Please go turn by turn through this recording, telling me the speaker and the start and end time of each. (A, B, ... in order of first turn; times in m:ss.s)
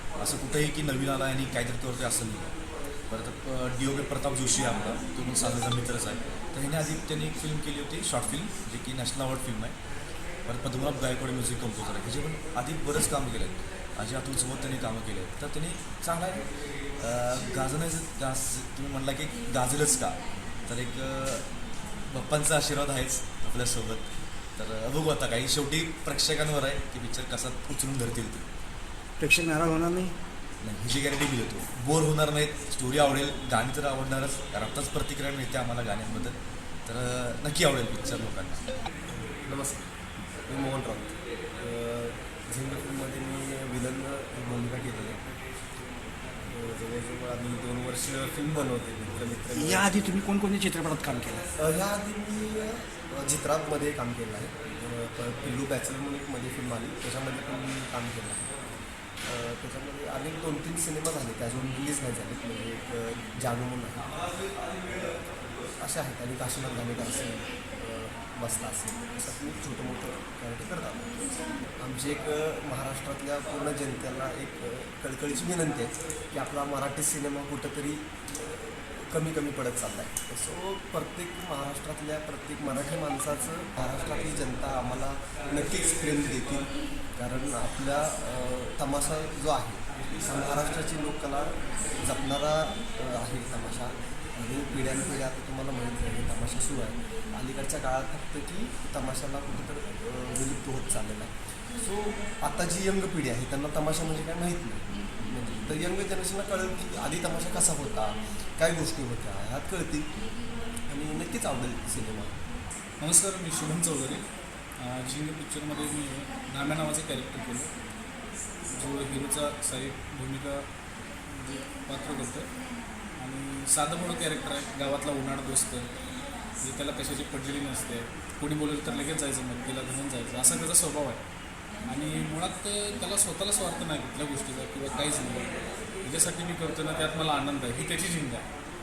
0:00.2-0:02.5 A
0:03.1-0:09.8 A
0:10.4-0:16.5 A
0:17.0-0:21.4 A
0:22.1-0:24.0 A
0:24.6-0:28.4 A
0:29.2-0:30.1 B
0:30.6-0:38.6 A
0:39.1-0:39.9 C
0:40.5-0:45.2 C
0:46.4-0:50.0 C
0:49.5-0:51.4 B
0:51.6-0:58.6 C
0:59.2-1:04.1 C
1:04.4-1:05.5 A
1:05.8-1:11.1 C
1:11.8-1:50.3 C
1:50.9-1:52.4 C
1:53.0-1:54.2 D
1:54.8-1:57.7 D
1:58.7-2:00.6 D
2:01.3-2:02.5 D
2:03.2-2:05.9 D
2:06.6-2:11.2 D
2:11.8-2:15.5 D
2:16.0-2:18.4 D